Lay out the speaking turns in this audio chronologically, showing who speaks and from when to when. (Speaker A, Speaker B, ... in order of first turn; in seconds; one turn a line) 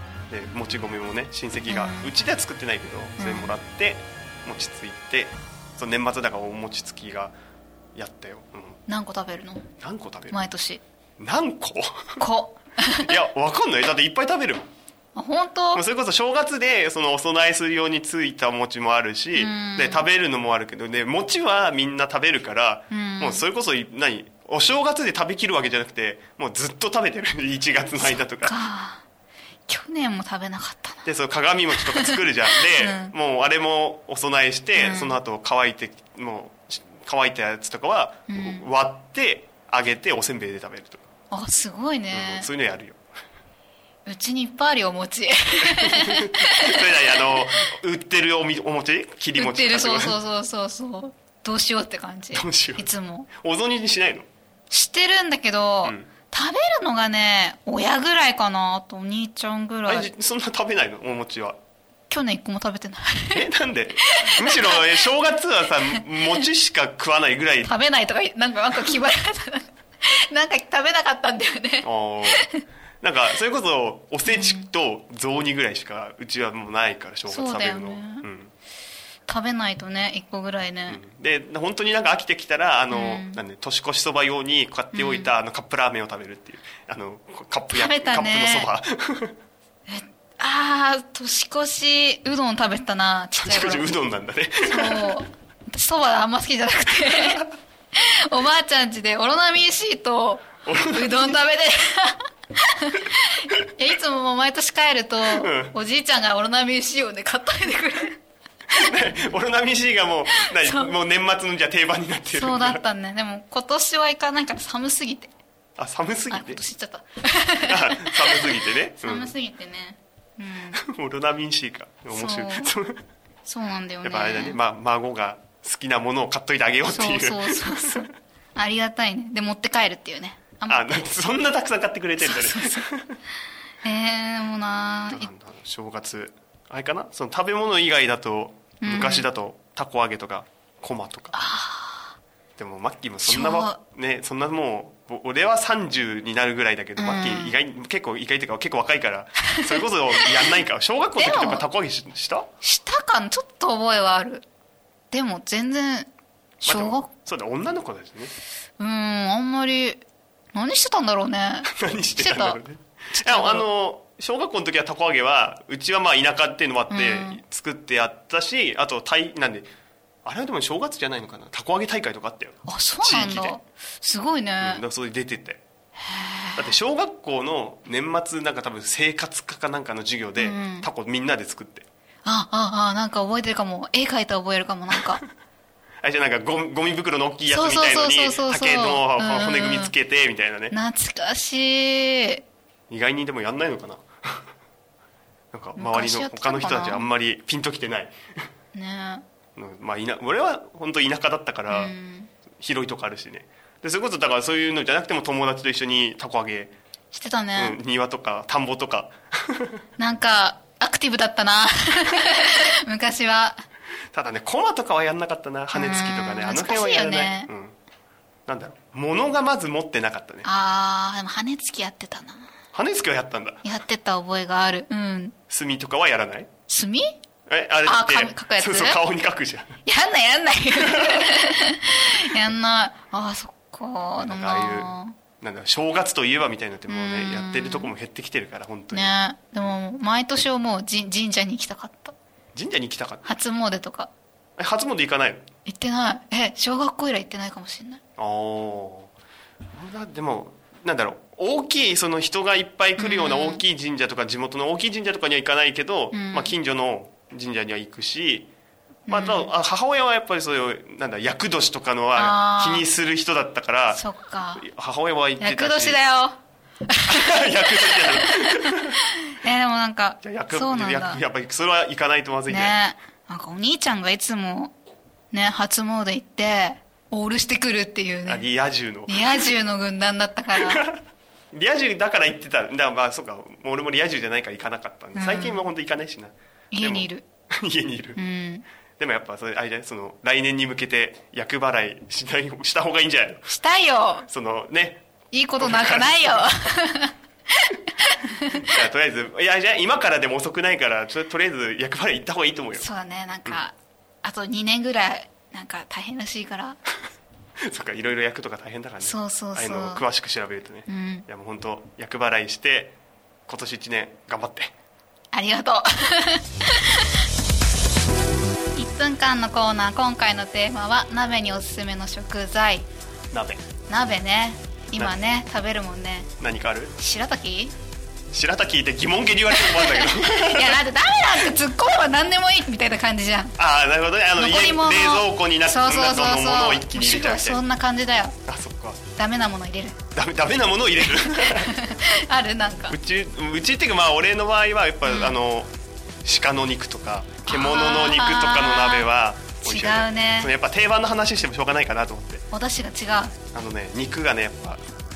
Speaker A: 0.3-7.3
Speaker B: 1.7-2.1
Speaker B: 3.2-3.5
Speaker A: 8.0-8.8
Speaker B: 8.9-9.7
Speaker A: 9.8-10.4
Speaker B: 10.3-10.8
Speaker A: 11.2-12.1
Speaker B: 12.2-13.2
Speaker A: 13.1-14.6
Speaker B: 15.2-15.8
Speaker A: 15.7-28.6
Speaker B: 19.4-20.1
Speaker B: 22.9-23.4
Speaker B: 28.0-29.0
Speaker B: 29.7-31.1
Speaker A: 31.1-41.0
Speaker B: 31.8-33.1
Speaker B: 34.8-35.2
Speaker B: 38.3-38.6
Speaker B: 41.3-42.5
Speaker A: 42.1-43.0
Speaker B: 44.1-47.4
Speaker A: 45.8-50.2
Speaker B: 49.4-53.3
Speaker A: 52.3-54.3
Speaker B: 54.7-60.1
Speaker A: 55.8-56.1
Speaker A: 59.9-61.6
Speaker B: 62.1-63.5
Speaker A: 63.3-67.7
Speaker B: 64.0-65.0
Speaker B: 67.6-72.6
Speaker A: 71.8-72.5
Speaker A: 73.0-78.5
Speaker B: 74.2-74.7
Speaker B: 77.3-78.3
Speaker B: 79.3-81.0
Speaker A: 80.9-89.4
Speaker B: 82.9-83.4
Speaker B: 84.9-85.3
Speaker B: 87.7-88.7
Speaker B: 89.9-93.9
Speaker A: 93.4-95.2
Speaker B: 94.7-108.2
Speaker A: 100.7-101.4
Speaker A: 105.3-105.7
Speaker A: 108.7-112.8
Speaker B: 110.3-110.9
Speaker B: 112.3-115.3
Speaker A: 115.8-116.6
Speaker B: 116.3-120.8
Speaker A: 117.6-119.3
Speaker A: 120.8-123.0
Speaker B: 122.1-122.8
Speaker B: 123.5-124.6
Speaker A: 124.0-128.1
Speaker B: 126.9-131.0
Speaker A: 130.7-133.2
Speaker B: 132.2-132.8
Speaker B: 133.8-135.3
Speaker A: 135.1-141.4
Speaker B: 138.8-139.3
Speaker B: 141.3-142.2
Speaker A: 142.6-152.5
Speaker B: 143.2-143.8
Speaker B: 147.0-147.6
Speaker B: 149.6-150.3
Speaker B: 151.2-151.6
Speaker B: 152.6-154.4
Speaker B: 155.1-156.1
Speaker B: 156.6-157.1
Speaker A: 156.7-158.3
Speaker B: 158.8-162.6
Speaker A: 161.7-169.7
Speaker B: 163.2-163.7
Speaker B: 166.9-167.4
Speaker A: 170.2-173.6
Speaker B: 172.7-174.8
Speaker A: 174.6-175.6
Speaker B: 176.0-176.8
Speaker A: 176.6-181.9
Speaker B: 180.4-180.9
Speaker B: 182.2-185.2
Speaker A: 186.0-190.7
Speaker B: 187.5-189.9
Speaker B: 190.7-192.4
Speaker A: 192.9-194.4
Speaker A: 195.5-198.2
Speaker B: 195.8-197.1
Speaker B: 198.7-199.2
Speaker A: 199.6-201.9
Speaker B: 201.7-202.3
Speaker A: 202.6-206.7
Speaker B: 207.1-207.8
Speaker A: 207.6-209.8
Speaker B: 210.0-213.6
Speaker A: 214.1-217.8
Speaker B: 215.7-217.5
Speaker A: 218.5-220.5
Speaker B: 220.4-222.4
Speaker A: 222.7-223.6
Speaker B: 223.6-225.4
Speaker A: 225.5-226.5
Speaker B: 226.7-227.2
Speaker A: 227.5-229.8
Speaker B: 227.8-229.0
Speaker B: 229.9-235.2
Speaker A: 230.8-231.2
Speaker A: 234.2-239.2
Speaker B: 236.9-237.9
Speaker B: 238.9-242.2
Speaker A: 242.6-243.3
Speaker B: 243.2-244.1
Speaker A: 244.6-245.4
Speaker B: 245.7-248.0
Speaker A: 248.2-249.1
Speaker A: 249.7-258.5
Speaker B: 253.0-253.6
Speaker B: 256.1-256.5
Speaker B: 259.1-259.5
Speaker A: 259.1-264.0
Speaker B: 262.1-262.9
Speaker B: 263.9-264.6
Speaker A: 264.6-266.0
Speaker B: 265.4-266.4
Speaker B: 266.9-271.2
Speaker A: 267.1-269.0
Speaker A: 270.2-272.8
Speaker B: 272.5-274.7
Speaker B: 275.3-278.4
Speaker A: 278.3-279.5
Speaker B: 279.1-280.8
Speaker A: 280.6-288.2
Speaker B: 285.1-285.6
Speaker B: 286.7-287.2
Speaker B: 288.2-288.6
Speaker A: 289.0-293.5
Speaker B: 293.5-294.3
Speaker A: 294.2-295.0
Speaker B: 295.3-298.7
Speaker A: 295.6-296.4
Speaker A: 298.6-302.9
Speaker B: 302.8-306.8
Speaker A: 307.7-313.0
Speaker B: 309.0-310.1
Speaker B: 310.9-311.3
Speaker A: 313.5-314.7
Speaker B: 315.3-317.2
Speaker B: 318.8-322.9
Speaker A: 323.3-323.6
Speaker B: 323.9-326.3
Speaker A: 326.4-326.9
Speaker B: 327.0-327.7
Speaker A: 328.3-330.8
Speaker B: 329.5-333.6
Speaker A: 333.6-337.6
Speaker B: 334.4-338.4
Speaker A: 338.5-339.0
Speaker B: 339.2-340.0
Speaker A: 340.1-341.7
Speaker B: 341.0-342.9
Speaker A: 342.9-345.7
Speaker B: 345.0-345.4
Speaker A: 346.2-352.4
Speaker B: 347.5-349.1
Speaker B: 349.6-350.5
Speaker B: 352.5-353.4
Speaker A: 353.5-354.8